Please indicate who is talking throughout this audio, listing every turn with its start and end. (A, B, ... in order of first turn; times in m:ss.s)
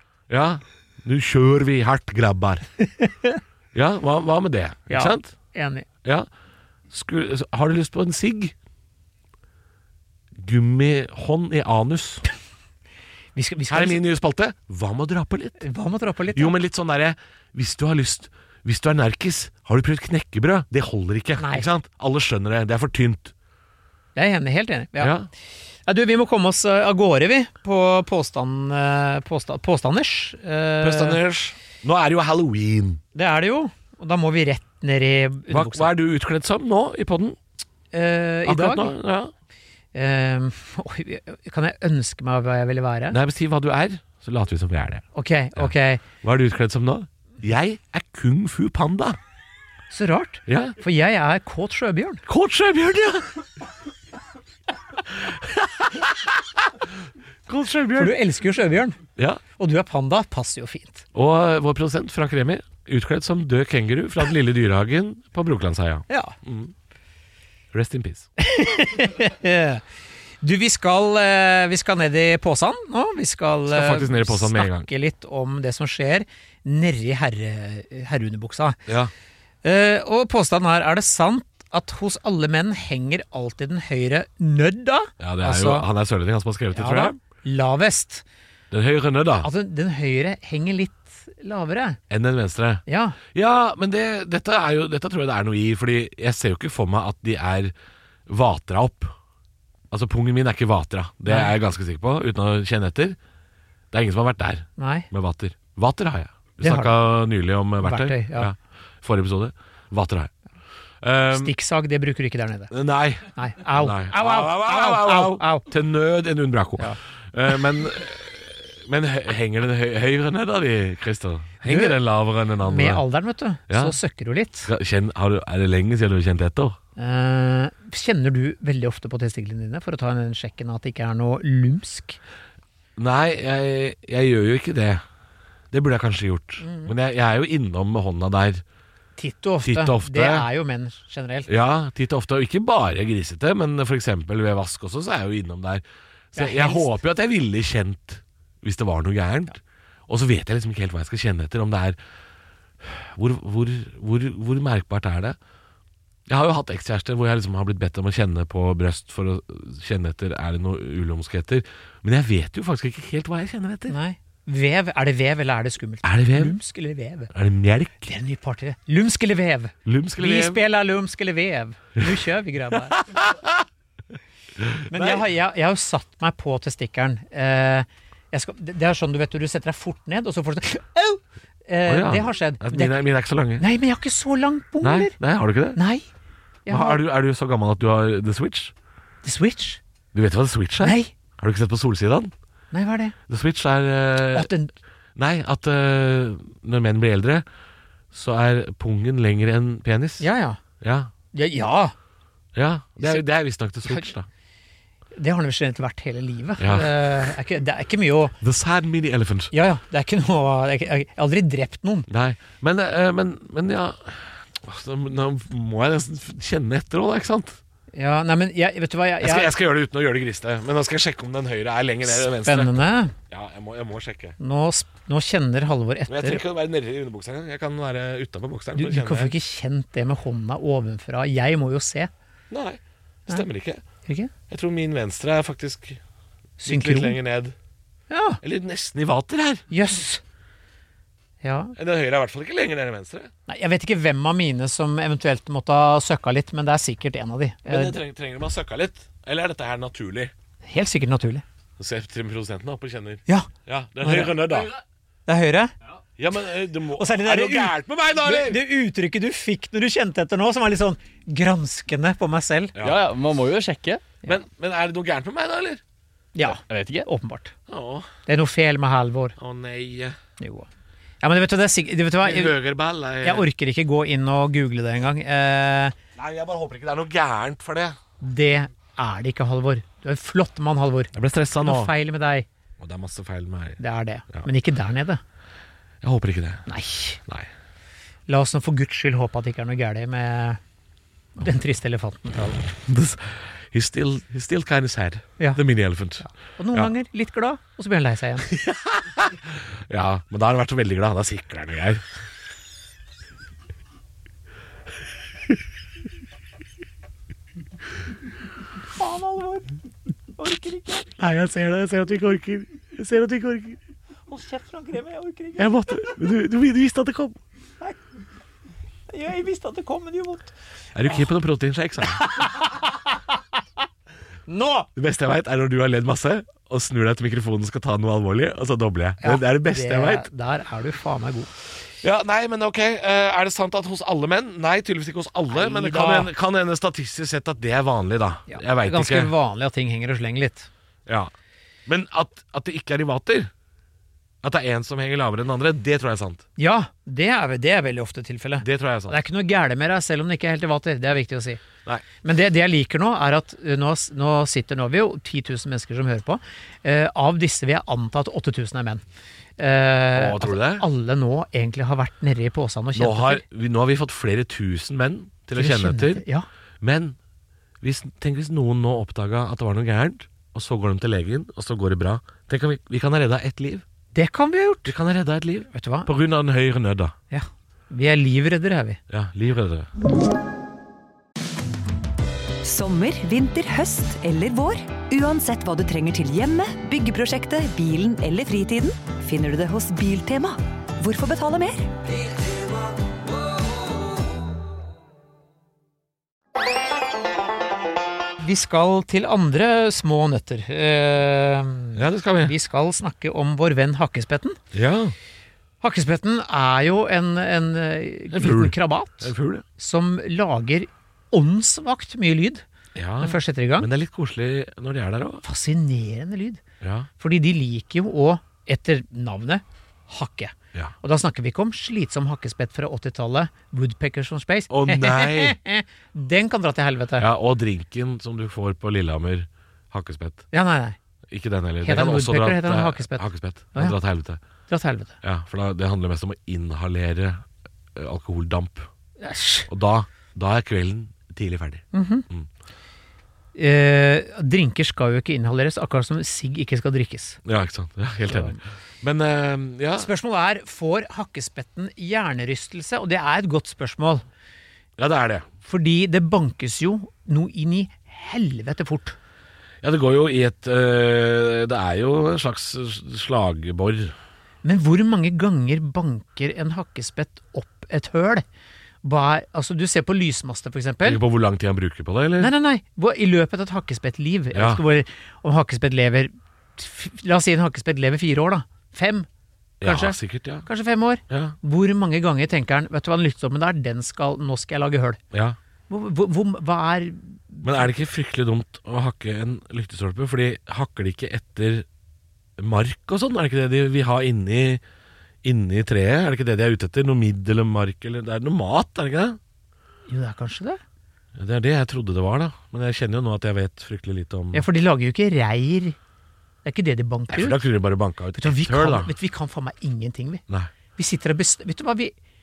0:00.3-0:02.6 A
0:03.0-0:03.4 B
0:03.7-0:05.3 A
0:04.9-0:05.8 B
0:06.9-0:08.5 A
0:10.4-0:12.2 A
0:13.3-0:14.0 B
0:13.7-0:15.6 A
0:15.6-0:16.5 B
0:16.3-0:23.3 A
0:21.4-0:21.7 B
0:24.1-0:25.1 B
0:25.0-0:25.3 A
0:25.8-0:31.2 B
0:30.8-0:33.0 A
0:33.1-0:35.9 B
0:35.5-0:37.4 A
0:37.9-0:38.9 B
0:38.4-0:39.3 A
0:39.9-0:43.2 B
0:43.1-0:45.0 A
0:45.1-0:46.0 B
0:46.2-0:49.2 A
0:49.9-0:52.2 B
0:50.5-0:50.8 A
0:52.2-0:53.3 A
0:55.1-0:56.6 A
0:57.5-0:58.2 A
0:58.0-0:59.0 B
0:59.6-1:01.0 B
1:01.1-1:06.7 A
1:06.1-1:06.4 B
1:07.7-1:08.3 A
1:08.4-1:09.8 B
1:10.4-1:18.8 B
1:13.7-1:14.9 A
1:18.9-1:19.1 A
1:19.6-1:25.9 B
1:25.2-1:27.2 A
1:26.7-1:28.2 B
1:28.7-1:29.5 A
1:29.4-1:32.0 B
1:32.1-1:37.7 A
1:32.9-1:33.2 B
1:38.3-1:39.1 A
1:39.9-1:43.2 A
1:41.2-1:41.5 B
1:43.9-1:50.3 A
1:44.8-1:45.1 B
1:46.6-1:47.0 B
1:47.8-1:48.5 B
1:51.0-1:51.5 A
1:51.3-1:52.7 B
1:52.7-2:03.0 A
1:53.4-1:55.7 B
2:01.6-2:02.0 B
2:02.6-2:04.7 B
2:03.7-2:04.0 A
2:04.6-2:06.8 A
2:07.0-2:12.2 B
2:13.0-2:15.0 A
2:15.7-2:18.6 A
2:16.6-2:16.9 B
2:19.2-2:21.5 B
2:19.6-2:20.5 A
2:21.5-2:32.0 A
2:26.3-2:26.9 B
2:32.8-2:35.4 A
2:36.3-2:44.0 A
2:43.9-2:47.3 B
2:46.0-2:46.6 A
2:47.3-2:48.1 A
2:48.0-2:53.0 B
2:49.8-2:50.6 A
2:52.9-2:53.6 A
2:54.6-2:55.2 A
2:54.9-3:03.0 B
3:01.8-3:03.6 A
3:03.6-3:05.2 B
3:04.8-3:05.8 A
3:05.7-3:06.1 B
3:06.6-3:07.0 B
3:06.7-3:08.7 A
3:09.2-3:09.8 B
3:10.1-3:12.3 A
3:10.8-3:11.1 B
3:12.7-3:13.2 B
3:13.3-3:14.5 A
3:14.3-3:14.7 B
3:15.2-3:17.4 A
3:18.1-3:20.3 A
3:20.2-3:20.6 B
3:20.8-3:21.1 A
3:21.3-3:21.9 B
3:22.5-3:24.3 A
3:25.1-3:28.4 B
3:26.6-3:27.3 A
3:28.4-3:29.5 A
3:29.5-3:32.1 B
3:32.1-3:37.6 A
3:37.9-3:39.5 B
3:39.2-3:44.4 A
3:42.1-3:43.1 B
3:44.4-3:46.4 B
3:46.1-3:49.3 A
3:48.8-3:52.1 B
3:52.5-3:53.8 A
3:54.0-3:54.3 B
3:54.5-3:56.0 A
3:56.6-3:57.2 B
3:56.6-3:57.5 A
3:58.1-3:58.4 B
3:58.4-3:59.6 A
3:59.7-4:00.2 B
4:01.4-4:01.7 B
4:01.8-4:03.3 A
4:03.5-4:08.0 B
4:07.7-4:10.3 A
4:10.6-4:11.4 B
4:11.8-4:14.7 A
4:14.0-4:14.7 B
4:15.3-4:15.7 B
4:16.2-4:18.6 A
4:16.9-4:22.7 B
4:22.8-4:23.1 A
4:22.8-4:24.2 C
4:24.2-4:25.8 A
4:26.3-4:27.5 B
4:26.4-4:27.1 C
4:27.7-4:28.1 A
4:28.2-4:29.4 B
4:29.4-4:30.2 A
4:30.4-4:30.7 B
4:31.2-4:32.6 B
4:32.2-4:33.5 A
4:33.2-4:35.9 B
4:36.2-4:38.0 A
4:38.2-4:42.5 B
4:41.1-4:41.9 A
4:42.8-4:43.8 A
4:43.8-4:45.2 B
4:46.0-4:46.7 A
4:46.7-4:47.2 B
4:48.3-4:50.6 B
4:51.4-4:52.6 B
4:52.8-4:56.9 A
4:56.2-4:58.5 B
4:58.5-5:02.0 A
5:09.0-5:09.7 B
5:10.4-5:11.1 B
5:11.2-5:13.8 A
5:14.3-5:16.2 B
5:15.6-5:17.4 A
5:19.1-5:20.5 B
5:20.9-5:22.2 A
5:22.1-5:23.2 B
5:24.5-5:24.9 B
5:25.0-5:30.3 A
5:29.2-5:31.5 B
5:32.0-5:39.3 A
5:35.5-5:36.3 B
5:38.5-5:40.7 B
5:41.0-5:41.3 A
5:41.8-5:43.5 A
5:44.4-5:46.4 A
5:46.6-5:51.6 B
5:48.6-5:49.2 A
5:52.2-5:59.0 B
5:59.6-6:03.4 B
6:00.1-6:00.8 A
6:02.9-6:06.2 A
6:05.5-6:06.4 B
6:06.8-6:07.2 A
6:07.8-6:13.8 A
6:14.1-6:14.9 B
6:14.8-6:17.1 A
6:15.7-6:16.1 B
6:17.3-6:19.0 B
6:19.1-6:19.9 A
6:22.6-6:32.0 D
6:38.4-6:44.6 B
6:41.9-6:42.5 A
6:44.7-6:45.1 A
6:45.8-6:52.6 B
6:48.3-6:49.6 A
6:52.9-6:55.4 A
6:53.2-6:53.9 B
6:55.4-6:56.6 B
6:56.8-6:57.1 A
6:57.2-7:07.3 B
7:04.7-7:05.6 A
7:07.2-7:10.4 A
7:10.5-7:11.0 B
7:11.3-7:14.4 A
7:11.8-7:14.0 B
7:14.7-7:15.2 B
7:15.2-7:17.4 A
7:17.9-7:18.9 A
7:19.2-7:19.7 B
7:19.7-7:22.5 A
7:21.9-7:22.2 B
7:23.5-7:27.4 B
7:27.4-7:30.1 A
7:28.3-7:28.6 B
7:30.0-7:34.2 B
7:35.0-7:35.5 A
7:35.6-7:39.2 B
7:39.8-7:44.1 A
7:44.6-7:48.4 B
7:49.0-7:51.2 B
7:51.0-7:52.5 A
7:52.4-7:59.3 B
7:54.5-7:54.8 A
7:59.8-8:00.7 A
7:59.8-8:05.2 B
8:01.3-8:01.6 A
8:05.3-8:05.6 A
8:05.9-8:07.9 B
8:07.6-8:11.8 A
8:12.6-8:14.8 A
8:15.4-8:19.4 A
8:20.1-8:20.8 B
8:21.4-8:24.6 A
8:24.5-8:26.0 B
8:26.6-8:27.6 B
8:27.3-8:29.1 A
8:28.3-8:30.4 B
8:31.0-8:32.1 B